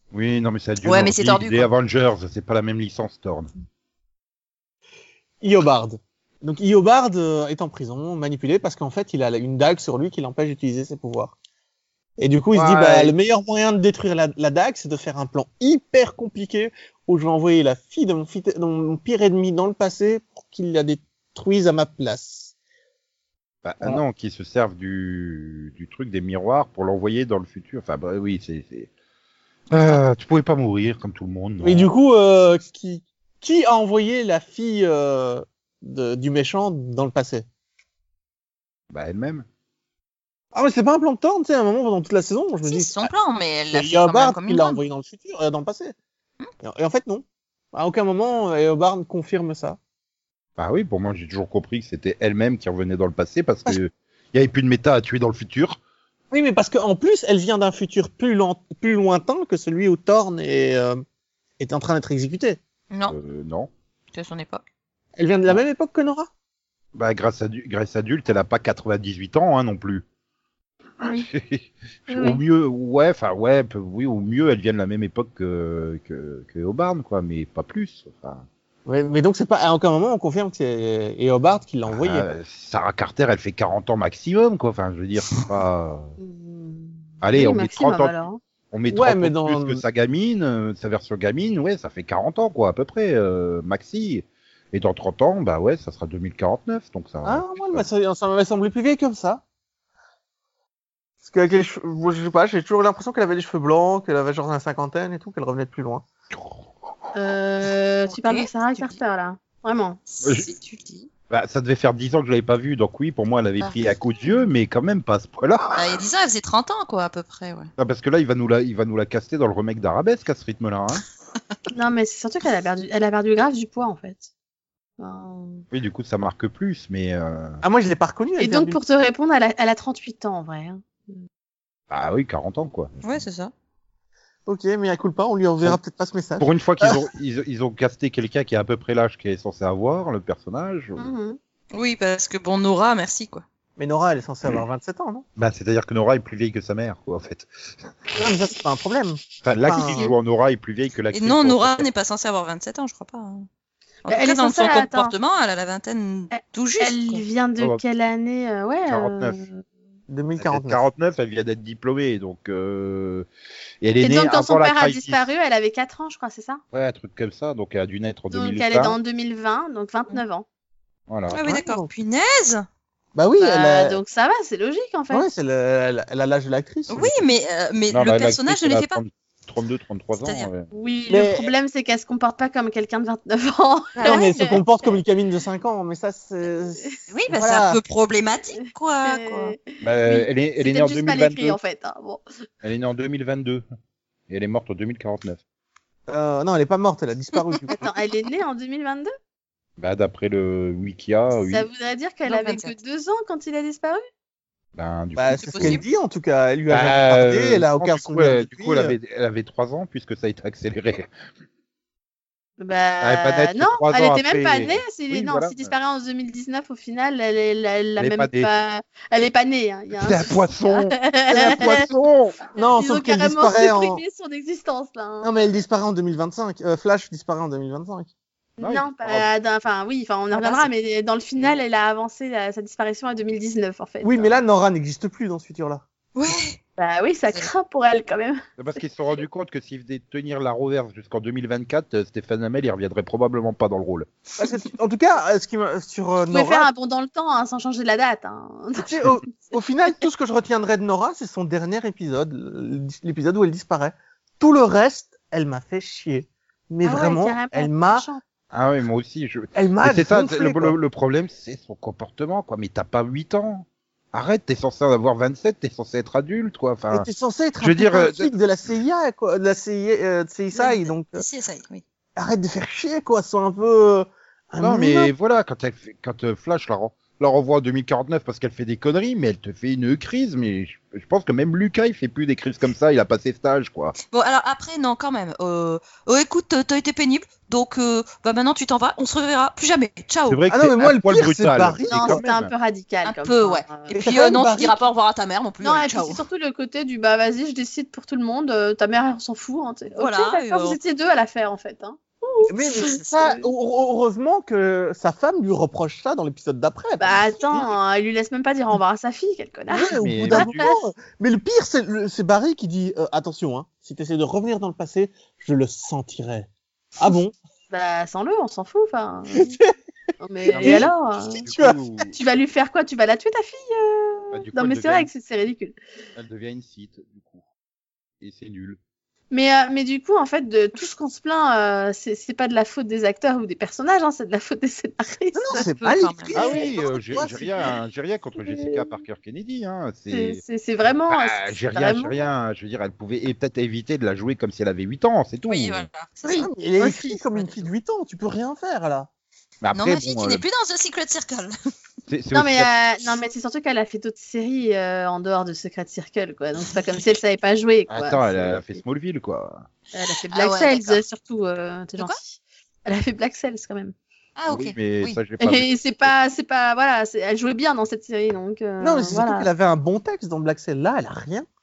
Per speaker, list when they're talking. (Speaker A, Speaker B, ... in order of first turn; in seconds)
Speaker A: 0.1-3.5, 12.5-13.1, 23.6-28.9, 29.7-31.9, 38.9-39.5, 50.6-55.8, 63.1-63.7, 67.0-70.0, 71.1-78.5, 81.9-86.1, 87.2-88.2, 88.7-97.9, 106.3-106.7, 110.2-110.5, 111.3-116.0, 117.8-121.0, 125.7-127.6, 131.9-133.2, 136.4-141.1, 145.4-148.2, 149.4-151.9, 158.9-159.4, 160.4-163.3, 163.8-165.3, 166.7-169.0, 171.1-171.6, 177.9-180.7, 189.8-191.6, 192.6-193.6, 194.3-195.4, 199.8-201.7, 204.8-205.8, 206.7-211.1, 213.0-215.7, 218.0-218.5, 220.0-222.4, 228.6-229.3, 238.6-244.1, 258.5-267.1, 267.6-268.3, 274.6-283.9, 290.3-292.5, 309.9-310.7, 320.5-322.1, 324.3-325.1, 326.1-327.4, 328.2-328.8, 336.3-340.4, 341.1-345.9, 349.6-350.4, 352.1-352.7, 357.9-359.7, 364.5-366.1
Speaker B: 0.8-1.7, 42.7-44.8, 62.9-63.2, 64.1-64.6, 108.1-109.0, 110.1-111.1, 113.6-114.4, 115.8-117.7, 133.0-133.5, 141.7-143.4, 151.1-153.5, 154.1-157.2, 171.3-172.7, 176.9-179.0, 180.2-180.5, 184.0-184.6, 187.1-189.6, 202.2-202.8, 205.3-205.8, 230.4-230.7, 236.2-236.6, 270.5-271.8, 284.0-290.4, 293.0-296.2, 300.0-300.8, 335.5-336.4, 345.5-346.5, 347.3-347.7, 349.7-351.5, 360.3-361.0, 364.4-365.2
Speaker C: 5.4-11.4, 12.2-22.5, 31.6-37.5, 40.5-43.1, 43.7-46.0, 46.6-49.8, 56.3-61.0, 61.6-62.6, 65.2-66.3, 78.9-82.3, 88.9-89.8, 97.2-99.4, 101.2-106.0, 127.6-128.8, 134.5-137.1, 143.8-145.3, 148.2-150.1, 160.1-160.8, 171.5-171.9, 173.2-174.0, 175.1-177.2, 181.1-181.5, 184.0-187.8, 196.1-197.8, 205.2-209.0, 222.6-224.0, 225.2-228.1, 234.0-235.8, 244.4-246.7, 248.8-258.1, 259.6-260.8, 266.9-271.2, 272.2-275.1, 290.5-292.2, 293.9-294.8, 302.5-307.7, 309.7-317.3, 319.4-319.7, 320.5-320.9, 321.4-321.8, 335.4-337.7, 346.2-349.1, 368.8-371.5
Speaker D: 72.1-72.4, 86.2-88.4, 107.1-110.0, 121.7-124.3, 125.0-125.7, 128.4-131.2, 141.0-141.4, 154.1-155.1, 156.3-159.6, 164.0-166.6, 168.3-170.4, 173.4-175.3, 180.7-184.6, 188.6-192.2, 197.7-199.1, 201.4-204.0, 212.6-221.9, 222.6-225.6, 228.6-234.4, 236.8-238.4, 246.3-249.5, 256.8-258.2, 291.9-293.9, 295.6-303.5, 307.0-310.8, 317.7-319.6, 320.2-321.4, 322.1-325.8, 329.3-335.7, 338.4-339.0, 340.1-342.1, 352.3-358.8, 359.9-363.9, 365.4-369.5